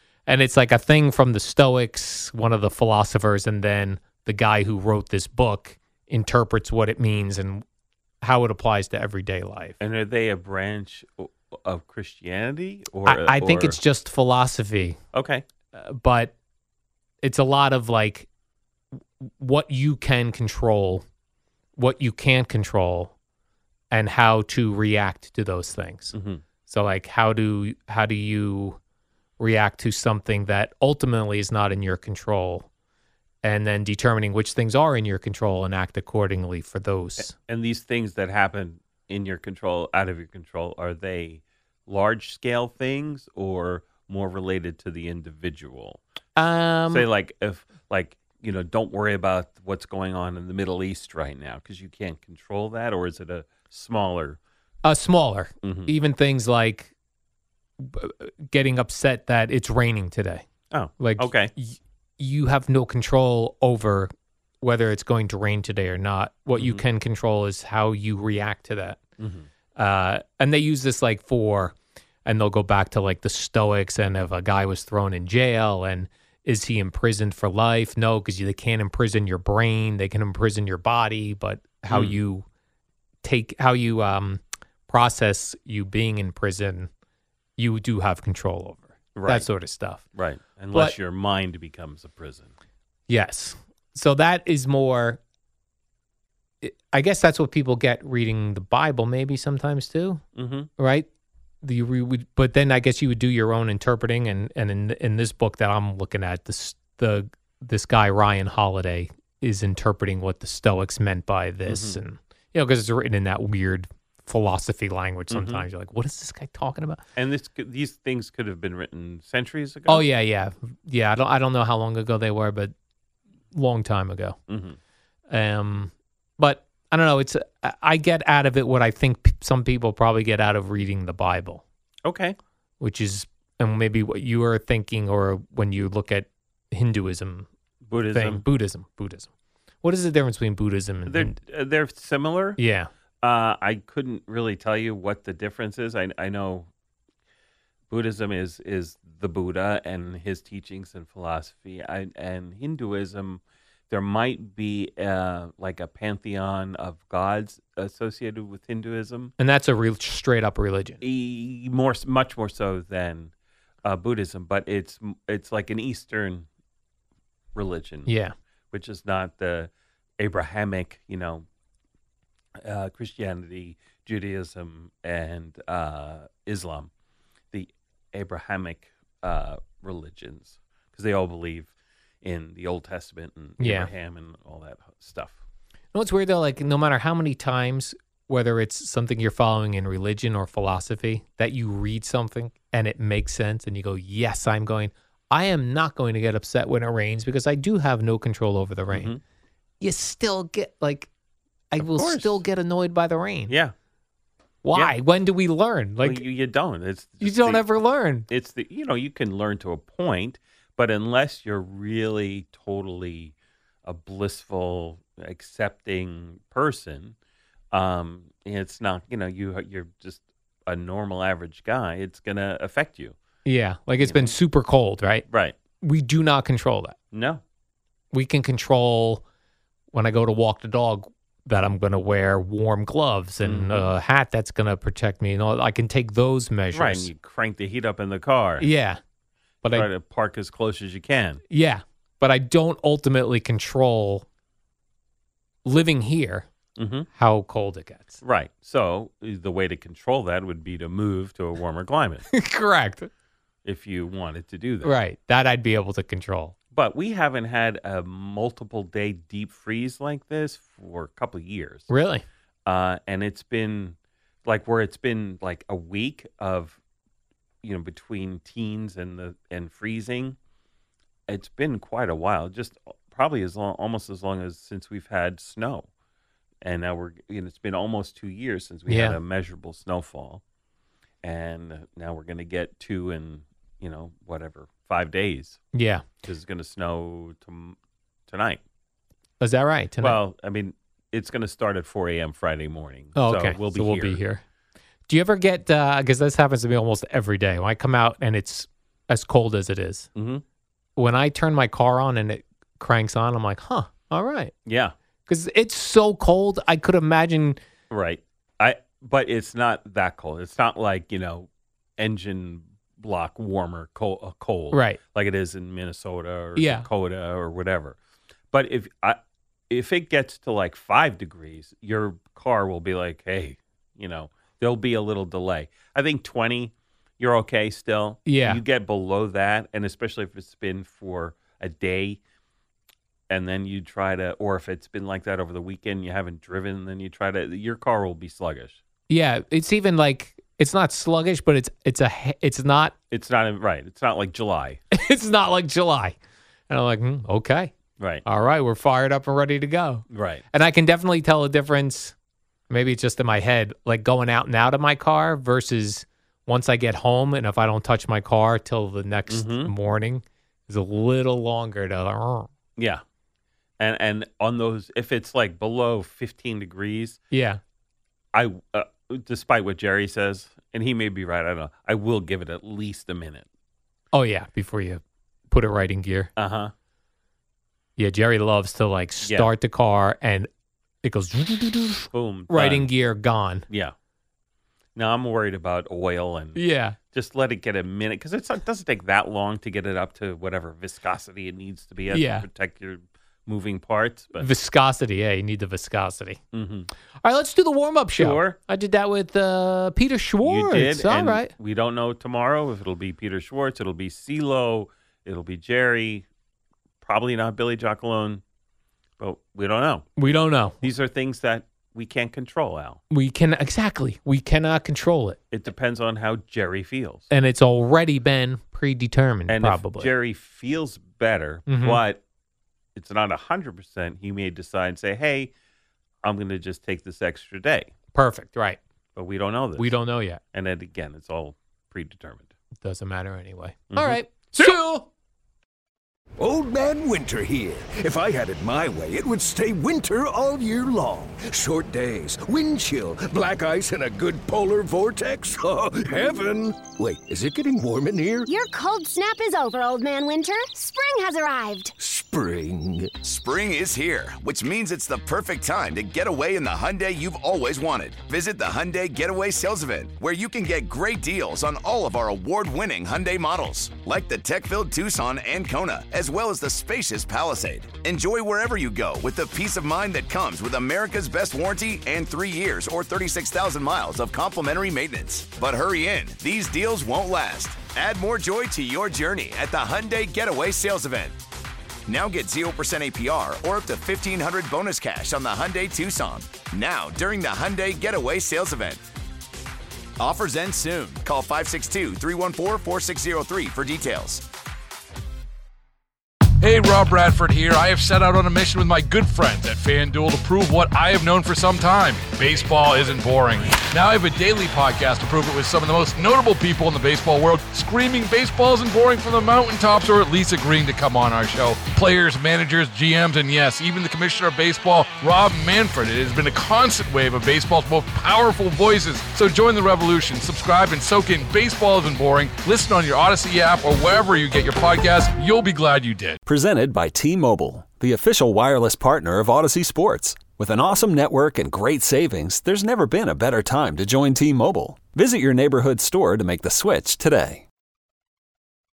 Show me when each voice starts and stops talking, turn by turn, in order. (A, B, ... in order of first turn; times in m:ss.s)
0:00.3-0:07.6 A
0:08.2-0:09.8 A
0:09.8-0:13.8 B
0:13.1-0:15.0 A
0:15.1-0:15.4 B
0:15.7-0:16.3 A
0:17.2-0:18.3 A
0:19.2-0:21.0 A
0:21.8-0:23.1 A
0:23.9-0:26.1 A
0:26.1-0:26.4 B
0:26.7-0:28.8 A
0:29.4-0:32.7 A
0:33.4-0:37.3 A
0:37.2-0:46.0 B
0:46.4-0:47.1 A
0:46.9-0:54.4 B
0:54.8-0:56.9 A
0:55.6-0:55.9 B
0:57.8-1:00.5 A
1:00.7-1:01.5 B
1:01.0-1:04.1 A
1:04.6-1:09.0 A
1:09.2-1:09.5 B
1:09.8-1:11.8 A
1:12.3-1:22.5 A
1:21.9-1:22.2 B
1:23.2-1:26.9 A
1:27.6-1:30.0 A
1:29.2-1:29.5 B
1:30.1-1:32.5 B
1:33.1-1:35.2 A
1:36.6-1:40.2 A
1:40.4-1:40.7 B
1:40.8-1:41.1 A
1:41.6-1:57.0 A
1:51.7-1:52.0 B
1:55.3-1:55.7 B
1:57.2-2:00.0 B
1:59.9-2:02.7 A
2:03.5-2:04.4 A
2:04.5-2:04.8 B
2:05.3-2:11.6 A
2:12.0-2:12.4 B
2:12.8-2:17.5 A
2:17.9-2:18.4 B
2:18.1-2:19.3 A
2:19.8-2:21.4 A
2:21.1-2:22.6 B
2:22.6-2:22.9 A
2:23.2-2:26.7 B
2:27.9-2:39.3 B
2:39.4-2:41.0 A
2:41.0-2:43.3 B
2:43.8-2:46.5 B
2:47.6-2:48.1 B
2:48.1-2:48.3 A
2:48.7-2:51.5 B
2:52.6-2:56.9 B
2:57.5-3:05.4 B
3:03.6-3:03.9 A
3:05.9-3:19.1 A
3:18.9-3:19.2 B
3:19.8-3:21.1 A
3:21.7-3:23.5 A
3:21.8-3:22.4 B
3:24.6-3:26.2 A
3:26.0-3:27.6 B
3:27.2-3:28.3 A
3:28.3-3:33.3 B
3:33.8-3:37.2 B
3:37.7-3:43.2 B
3:43.4-3:45.2 A
3:44.0-3:44.3 B
3:45.3-3:45.6 B
3:45.8-3:47.0 A
3:47.1-3:47.4 B
3:48.1-3:49.2 A
3:49.9-3:57.1 A
3:53.4-3:53.9 B
3:56.7-3:58.7 B
3:58.6-3:59.0 A
3:59.7-4:01.4 B
4:01.5-4:04.2 A
4:05.6-4:06.5 A
4:06.8-4:07.1 B
4:07.2-4:08.2 A
4:08.2-4:12.3 B
4:12.3-4:13.1 A
4:13.6-4:14.9 B
4:14.8-4:16.6 A
4:16.7-4:21.9 B
4:21.9-4:22.2 A
4:22.7-4:26.8 B
4:27.6-4:30.4 B
4:31.3-4:35.9 B
4:36.6-4:40.4 B
4:38.9-4:39.2 A
4:41.2-4:45.6 B
4:45.7-4:46.0 A
4:46.2-4:47.8 B
4:48.3-4:48.6 B
4:49.4-4:50.2 A
4:50.0-4:54.2 B
4:53.2-4:54.4 A
4:55.1-5:00.1 A
5:00.2-5:00.4 B
5:01.0-5:04.5 A
5:04.7-5:04.9 B
5:05.3-5:07.6 A
5:07.9-5:18.0 B
5:14.7-5:15.0 A
5:16.6-5:16.9 A
5:18.5-5:19.2 B
5:19.7-5:32.2 B
5:28.3-5:28.6 A
5:33.3-5:38.8 B
5:39.1-5:42.9 A
5:43.1-5:44.8 B
5:44.9-5:46.2 A
5:46.7-5:47.7 A
5:48.2-5:52.2 A
5:50.1-5:50.4 B
5:52.7-6:02.5 A
5:59.3-5:59.7 B
6:02.8-6:03.0 B
6:03.8-6:07.2 B
6:07.3-6:07.6 A
6:08.3-6:13.5 B
6:14.1-6:16.3 A
6:16.4-6:16.7 B
6:18.0-6:20.5 A
6:21.0-6:23.6 A
6:22.1-6:22.9 B
6:23.7-6:23.9 B
6:25.0-6:26.6 B
6:26.6-6:27.0 A
6:27.1-6:34.5 B
6:32.1-6:32.5 A
6:34.4-6:36.4 A
6:36.5-6:36.9 B
6:37.2-6:41.5 A
6:38.2-6:38.6 B
6:40.4-6:46.3 B
6:47.0-6:48.4 B
6:49.2-6:50.1 B
6:50.2-6:50.8 A
6:50.8-6:53.0 B
6:53.1-6:55.4 A
6:55.5-6:57.3 B
6:57.3-7:00.1 A
6:59.5-7:02.2 B
7:01.7-7:02.0 A
7:03.0-7:05.5 B
7:06.2-7:07.9 B
7:08.1-7:08.8 A
7:09.2-7:10.0 B
7:09.8-7:10.4 A
7:10.5-7:12.5 B
7:12.8-7:15.1 A
7:13.9-7:14.2 B
7:16.4-7:28.5 C
7:28.5-7:31.9 D
7:32.0-7:33.2 C
7:33.2-8:01.4 E
8:02.1-8:09.0 E
8:10.2-8:14.4 E
8:16.6-8:46.4 F
8:46.4-8:57.6 G